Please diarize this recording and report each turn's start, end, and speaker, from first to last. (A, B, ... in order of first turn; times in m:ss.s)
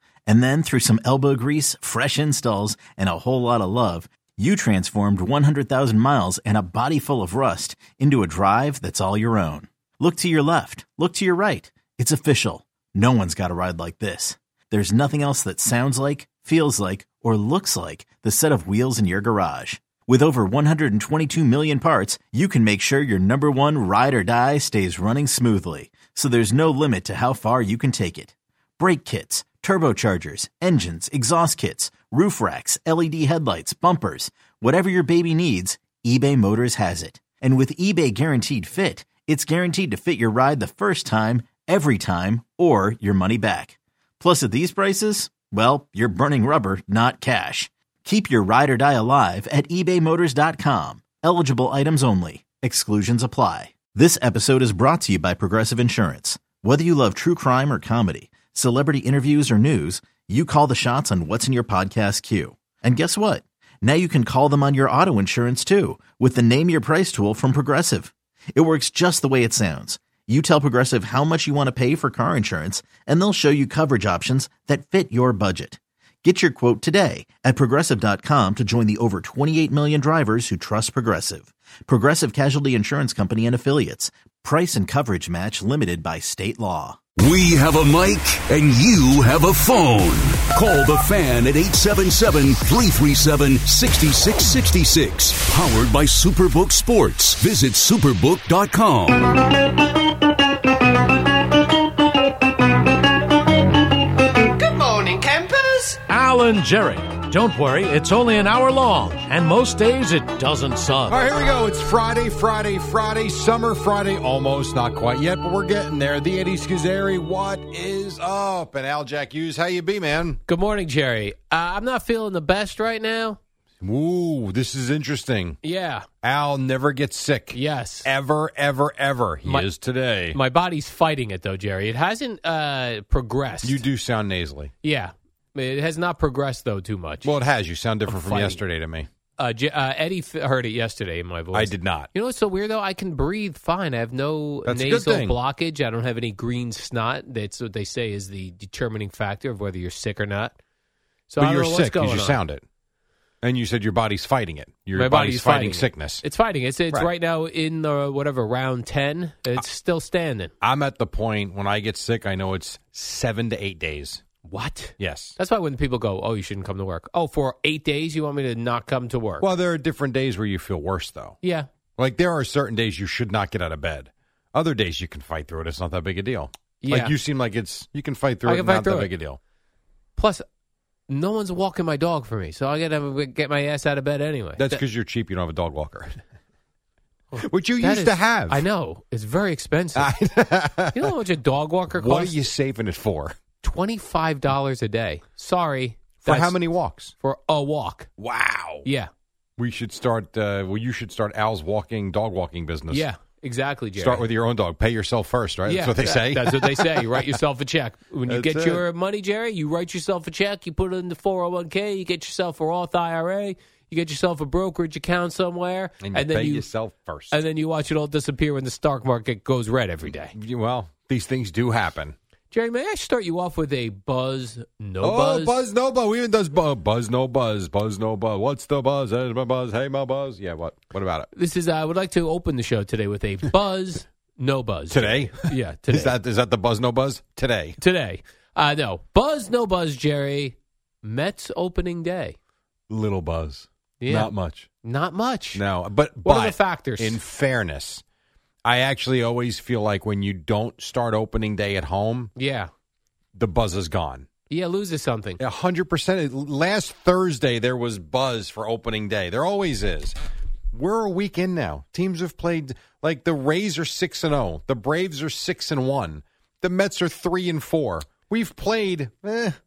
0:00.3-1:27.0 A
1:27.2-1:39.4 B
1:45.9-1:51.2 C
1:51.1-2:00.4 D
2:00.5-2:03.4 E
2:03.8-2:05.6 D
2:05.6-2:06.0 E
2:06.2-2:10.4 D
2:07.5-2:08.1 E
2:10.3-2:13.8 E
2:13.6-2:14.7 D
2:14.8-2:17.3 E
2:17.2-2:19.1 D
2:18.1-2:18.6 E
2:19.4-2:30.6 E
2:21.5-2:22.1 D
2:24.6-2:25.4 D
2:31.3-2:32.4 E
2:31.4-2:32.6 D
2:33.4-2:36.2 D
2:35.0-2:40.5 E
2:40.6-2:44.2 D
2:44.4-2:49.5 E
2:45.0-2:45.4 D
2:49.4-2:51.4 D
2:51.4-2:51.7 E
2:52.0-2:59.4 D
2:56.8-2:57.1 E
2:58.4-2:59.1 E
3:00.2-3:00.4 E
3:01.1-3:04.8 E
3:04.6-3:06.2 D
3:07.3-3:10.1 E
3:07.4-3:08.6 D
3:09.9-3:11.1 D
3:10.9-3:12.4 E
3:11.9-3:13.4 D
3:13.6-3:16.6 E
3:16.2-3:17.1 D
3:17.2-3:18.1 E
3:18.2-3:18.8 D
3:18.8-3:19.1 E
3:19.6-3:23.0 D
3:22.9-3:24.2 E
3:24.0-3:27.2 D
3:25.6-3:36.7 E
3:28.3-3:28.8 D
3:36.0-3:37.4 D
3:37.3-3:40.3 E
3:40.3-3:42.2 D
3:42.5-3:45.6 E
3:45.0-3:51.3 D
3:51.3-3:56.1 E
3:54.9-3:57.8 D
3:57.8-4:02.4 E
4:02.9-4:04.7 D
4:04.0-4:05.6 E
4:05.5-4:08.0 D
4:06.2-4:07.2 E
4:08.6-4:12.3 D
4:12.4-4:12.7 E
4:13.4-4:14.3 D
4:14.5-4:15.4 E
4:15.4-4:20.2 D
4:20.7-4:29.6 D